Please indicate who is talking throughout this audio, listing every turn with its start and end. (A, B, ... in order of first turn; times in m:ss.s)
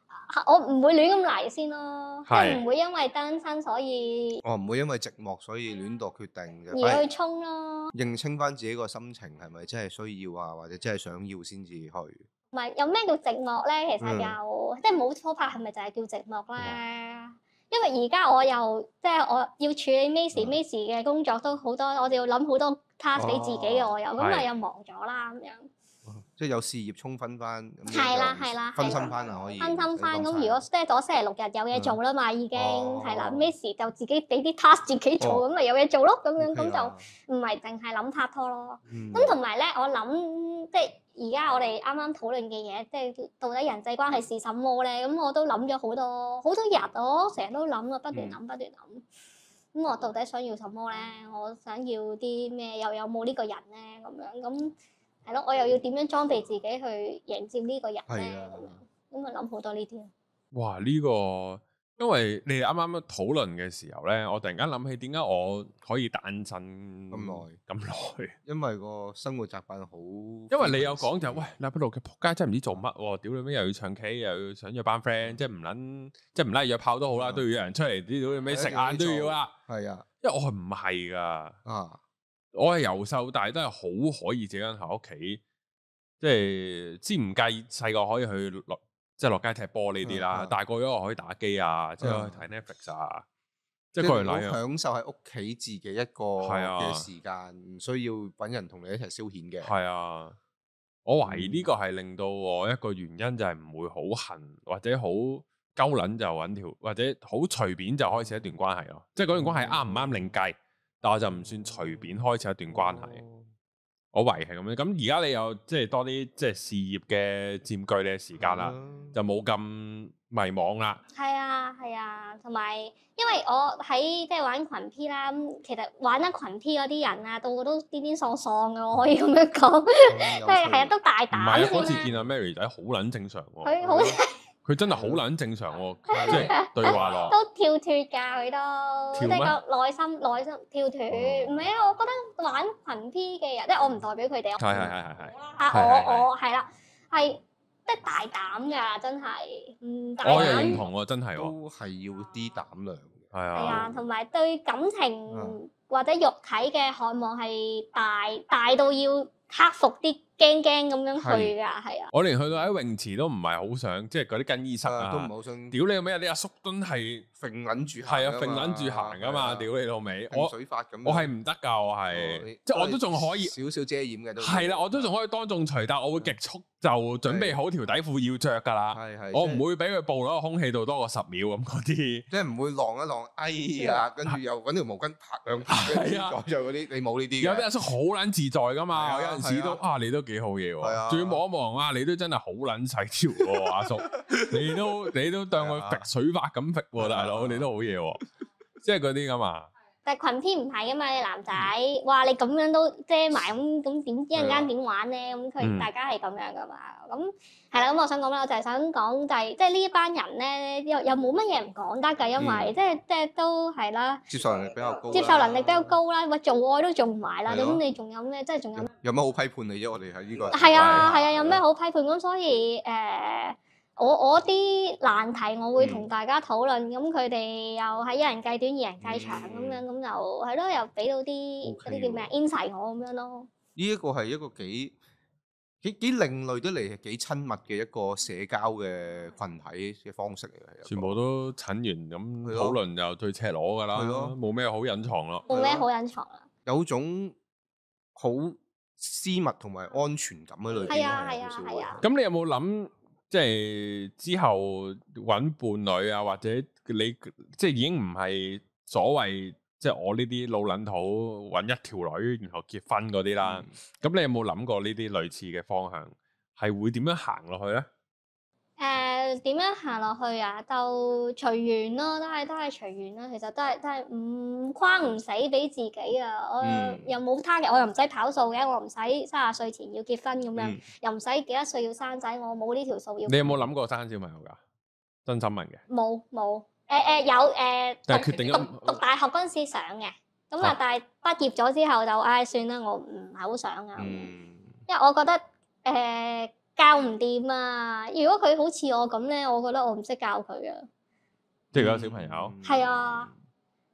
0:00.2-0:04.4 A
0:02.3-0:02.6 B
0:04.4-0:07.0 C
0:06.7-0:07.9 A
0:07.9-0:12.2 C
0:12.5-0:25.7 A
0:14.0-0:14.4 C
0:23.2-0:23.9 C
0:24.2-0:24.4 B
0:26.0-0:30.6 C
0:27.9-0:49.0 A
0:31.7-0:32.0 C
0:32.5-0:33.5 C
0:36.4-0:37.0 C
0:38.9-0:39.4 C
0:48.1-0:48.4 C
0:49.7-0:54.7 A
0:55.2-1:00.1 A
0:58.1-0:58.8 C
1:00.5-1:08.3 B
1:07.1-1:07.6 C
1:08.4-1:11.5 C
1:10.5-1:19.5 B
1:17.1-1:17.4 C
1:18.5-1:20.0 C
1:20.2-1:21.6 B
1:21.6-1:22.0 C
1:22.5-1:25.4 B
1:26.2-1:33.2 B
1:30.0-1:30.5 C
1:32.0-1:32.5 C
1:33.9-1:34.6 B
1:34.0-1:39.7 C
1:36.4-1:37.1 B
1:39.6-1:40.4 B
1:41.0-1:53.2 B
1:41.2-1:41.7 C
1:49.3-1:50.3 C
1:51.3-1:52.2 C
1:52.7-1:53.5 C
1:54.1-2:01.0 B
1:58.4-1:59.2 C
2:01.1-2:12.1 A
2:10.0-2:10.9 C
2:11.3-2:13.9 B
2:11.5-2:12.3 C
2:13.6-2:14.3 A
2:13.8-2:14.2 C
2:14.6-2:17.4 B
2:14.9-2:15.2 C
2:16.1-2:17.0 C
2:16.1-2:24.6 A
2:19.1-2:19.6 B
2:21.1-2:21.7 C
2:24.6-2:26.3 B
2:24.7-2:25.0 C
2:25.5-2:30.8 A
2:30.2-2:31.5 B
2:30.3-2:34.0 C
2:33.3-2:33.9 B
2:33.5-2:42.1 A
2:35.3-2:35.6 C
2:41.2-2:41.5 C
2:42.1-2:47.3 B
2:44.8-2:45.8 C
2:47.4-2:49.7 C
2:48.0-2:53.5 B
2:50.3-2:51.3 C
2:52.1-2:55.1 C
2:54.4-3:02.3 B
2:57.2-2:57.6 C
2:58.9-2:59.6 C
3:02.3-3:07.7 C
3:03.9-3:04.4 B
3:05.7-3:06.4 B
3:07.4-3:18.2 B
3:08.9-3:09.8 C
3:10.8-3:11.4 C
3:13.6-3:14.9 C
3:15.6-3:16.1 C
3:17.0-3:17.7 C
3:18.8-3:19.7 B
3:20.0-3:34.2 A
3:24.3-3:24.7 C
3:25.6-3:25.9 B
3:32.4-3:32.8 C
3:34.3-3:36.0 C
3:35.1-3:38.9 A
3:37.5-3:37.8 C
3:38.7-3:41.6 C
3:40.5-3:53.5 A
3:40.7-3:41.1 B
3:45.8-3:46.1 C
3:49.0-3:49.8 C
3:51.6-3:52.3 C
3:53.8-3:54.9 C
3:55.8-4:01.2 C
4:00.8-4:05.4 B
4:02.4-4:02.8 C
4:03.9-4:04.4 C
4:05.5-4:06.5 A
4:05.5-4:05.9 C
4:06.6-4:07.4 C
4:08.2-4:12.0 C
4:10.8-4:12.0 A
4:12.0-4:27.9 B
4:23.4-4:23.7 C
4:28.8-4:43.5 A
4:36.6-4:37.1 C
4:40.6-4:40.8 C
4:43.2-4:44.6 B
4:45.2-4:45.8 B
4:45.9-4:54.3 A
4:48.1-4:49.0 B
4:54.0-4:54.8 C
4:54.9-5:00.8 A
5:01.7-5:02.5 B
5:01.7-5:03.3 C
5:02.6-5:03.3 A